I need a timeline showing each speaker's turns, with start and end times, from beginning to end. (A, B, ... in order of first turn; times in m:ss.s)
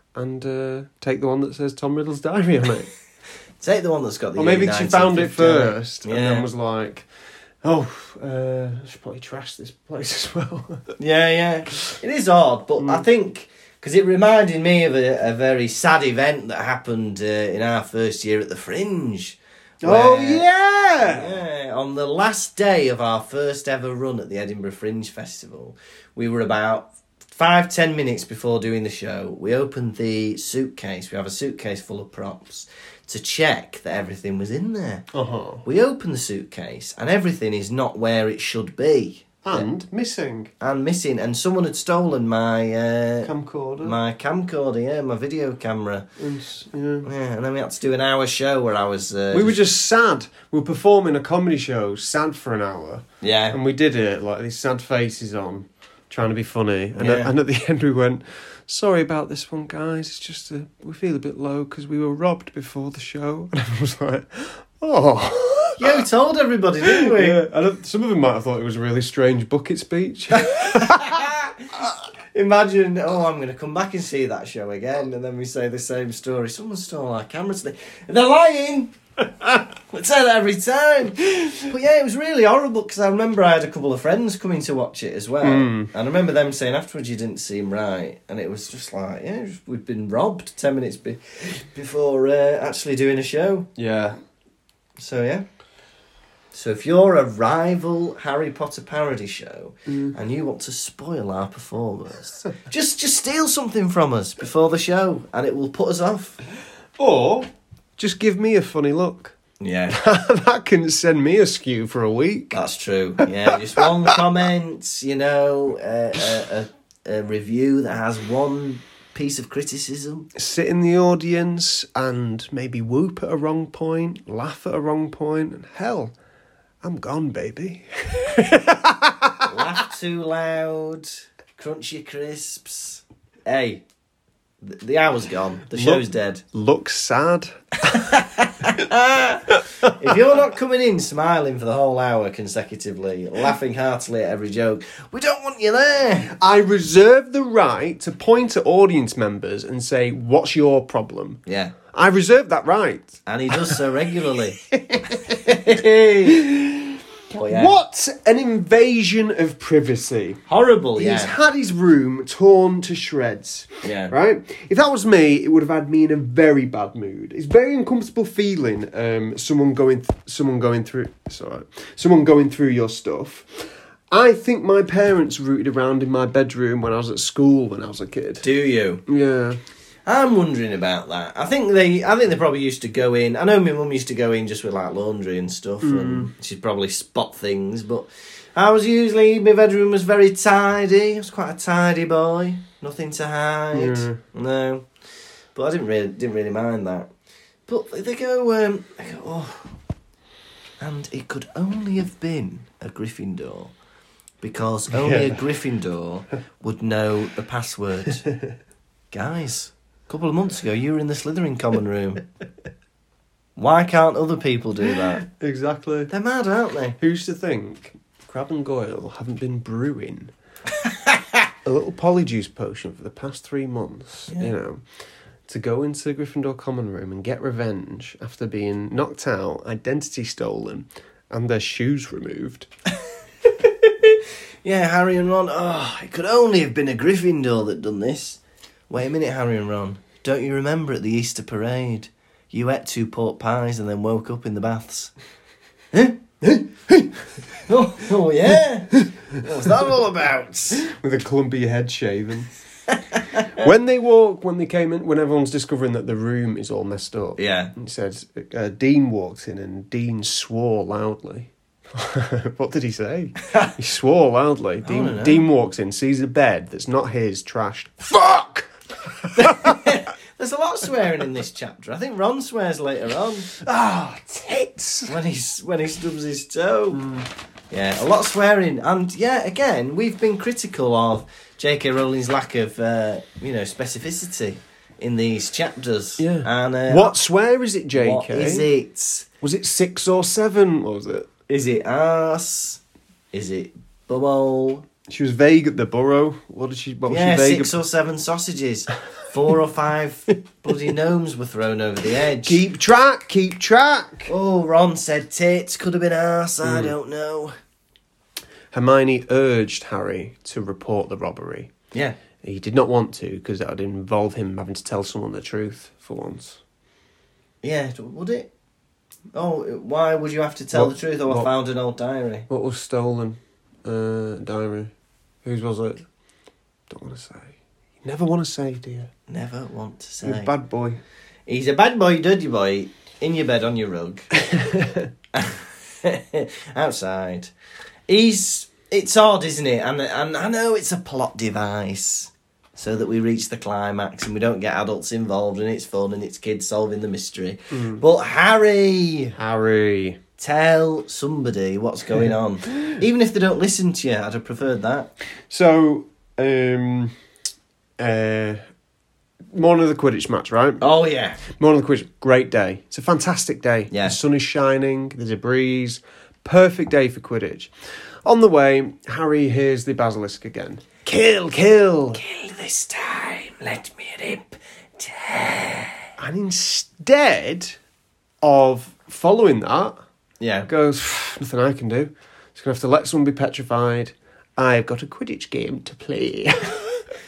0:00.2-0:02.9 A
0:03.6-0:06.5 B
0:04.4-0:07.1 A
0:07.6-0:10.9 A
0:11.0-0:20.5 B
0:19.8-0:21.4 A
0:21.0-0:35.0 B
0:35.1-0:35.6 A
0:35.6-0:39.7 B
0:39.4-0:40.5 A
0:40.6-0:43.3 B
0:43.2-0:44.0 A
0:43.8-0:46.1 B
0:46.2-0:47.1 A
0:47.0-0:49.6 B
0:49.3-1:06.1 A
0:53.2-0:53.6 B
0:57.0-0:57.3 B
1:05.8-1:07.4 B
1:06.8-1:11.3 A
1:10.4-1:33.7 B
1:25.4-1:25.9 A
1:33.8-1:34.2 A
1:35.0-1:35.5 B
1:36.5-1:46.4 B
1:39.9-1:40.1 A
1:47.0-1:49.4 A
1:49.6-1:50.0 B
1:49.9-1:52.6 A
1:52.5-2:00.3 B
1:53.2-1:54.2 A
2:00.4-2:06.1 A
2:06.8-2:09.6 A
2:09.4-2:13.8 B
2:14.6-2:16.4 B
2:15.7-2:18.8 A
2:17.9-2:26.3 B
2:19.8-2:20.1 A
2:26.2-2:31.4 A
2:31.5-2:31.8 B
2:31.9-2:33.8 A
2:33.3-2:36.5 B
2:34.6-2:35.6 A
2:36.3-2:40.4 A
2:37.3-2:37.8 B
2:40.5-2:41.3 B
2:41.0-2:58.5 A
2:43.8-2:44.1 B
2:58.4-2:59.0 B
2:59.1-2:59.6 A
3:00.1-3:14.9 B
3:05.8-3:06.3 A
3:13.7-3:14.2 A
3:15.6-3:17.1 B
3:17.7-3:19.7 B
3:20.8-3:23.7 B
3:24.4-3:28.3 B
3:24.9-3:25.4 A
3:29.1-3:32.2 B
3:33.6-3:35.2 B
3:34.8-3:36.1 A
3:36.1-3:37.0 B
3:37.0-3:40.3 A
3:40.8-3:41.4 B
3:41.6-3:44.8 A
3:45.5-3:52.7 A
3:53.6-4:05.1 B
4:05.9-4:06.4 B
4:07.5-4:10.9 B
4:09.0-4:09.9 A
4:10.8-4:12.5 A
4:12.9-4:13.7 B
4:13.5-4:30.0 A
4:17.4-4:17.7 B
4:23.4-4:23.8 B
4:24.8-4:25.5 B
4:29.4-4:33.5 B
4:33.5-4:35.1 A
4:35.1-4:37.1 B
4:36.9-4:37.3 A
4:37.7-4:47.2 B
4:46.2-4:48.7 A
4:48.0-4:49.3 B
4:49.4-4:51.3 A
4:51.5-4:52.8 B
4:53.3-4:54.8 B
4:55.1-4:57.7 A
4:57.1-5:02.6 B
5:02.4-5:04.3 A
5:04.3-5:07.5 B
5:06.6-5:06.9 A
5:08.7-5:11.7 A
5:12.4-5:16.6 A
5:17.6-5:18.5 B
5:19.3-5:22.5 B
5:20.7-5:21.5 A
5:22.5-5:24.9 A
5:25.4-5:26.0 A
5:26.9-5:29.1 A
5:29.3-5:30.5 B
5:30.2-5:31.0 A
5:31.5-5:34.3 B
5:34.4-5:35.1 A
5:35.3-5:37.5 B
5:38.1-5:49.4 B
5:47.7-5:48.0 A
5:49.4-5:50.2 A
5:50.4-5:55.1 B
5:55.5-5:57.1 A
5:58.0-5:58.6 A
5:59.5-6:00.8 A
6:00.8-6:01.4 B
6:01.4-6:07.7 A
6:03.9-6:04.2 B
6:08.2-6:12.2 A
6:12.1-6:15.9 B
6:16.2-6:17.8 A
6:18.4-6:20.0 A
6:20.4-6:20.7 B
6:20.7-6:27.0 A